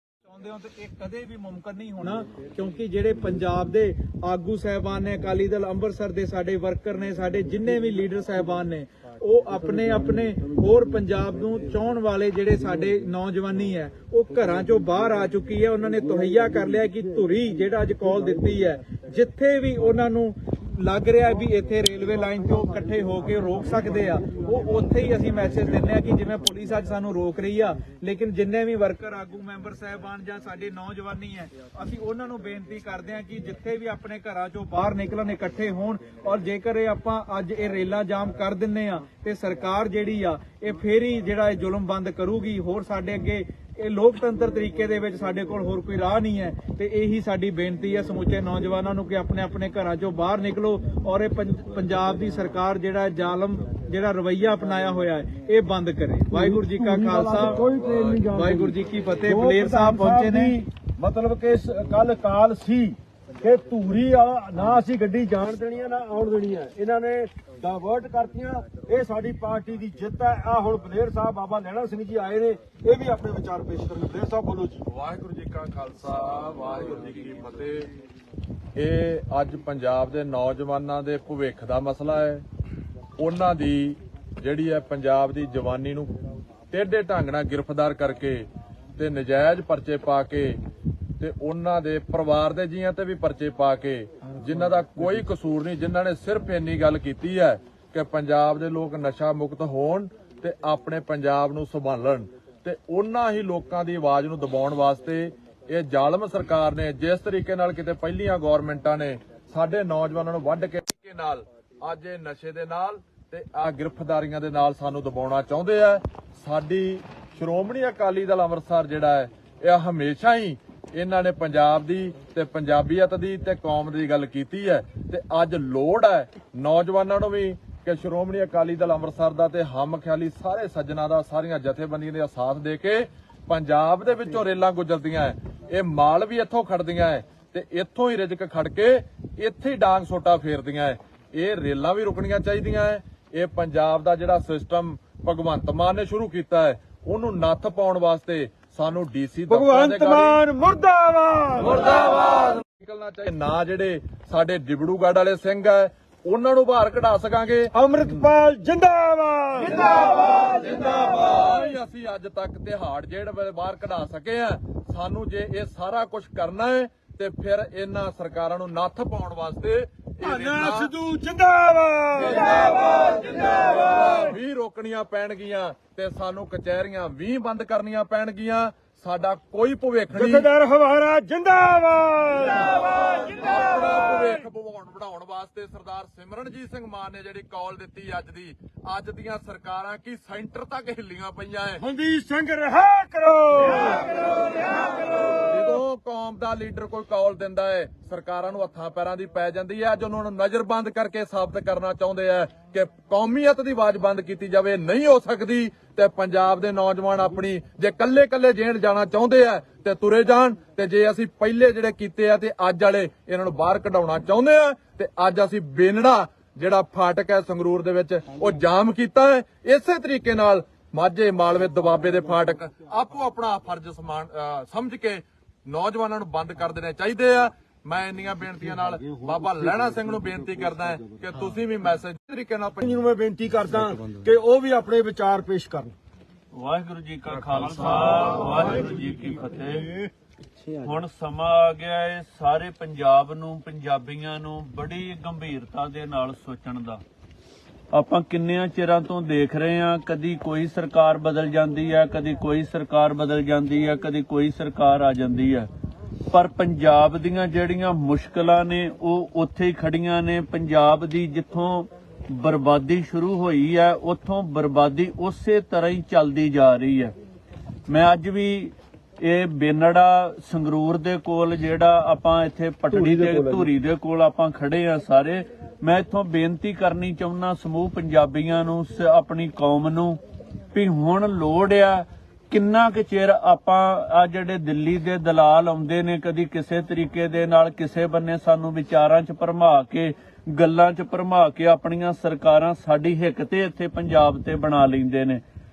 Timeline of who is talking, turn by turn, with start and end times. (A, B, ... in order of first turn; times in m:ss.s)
0:00.3-0:57.6 A
0:56.3-1:14.8 B
0:58.2-1:00.6 A
1:14.8-1:17.9 C
1:18.7-1:22.4 C
1:23.2-1:26.1 C
1:26.7-1:30.6 C
1:31.2-2:30.4 C
2:29.5-2:32.1 B
2:31.8-2:37.7 C
2:37.7-2:39.9 B
2:39.8-2:50.9 C
2:50.2-2:52.8 B
2:52.2-3:00.4 C
3:00.1-3:02.7 B
3:03.1-3:11.8 C
3:11.8-3:14.9 B
3:15.4-3:52.8 C
3:49.2-3:49.9 B
3:52.8-3:55.9 B
3:56.5-3:59.9 D
4:00.8-4:07.0 D
4:07.9-4:15.7 D
4:16.3-4:27.1 D
4:27.9-4:40.2 D
4:40.7-4:55.4 D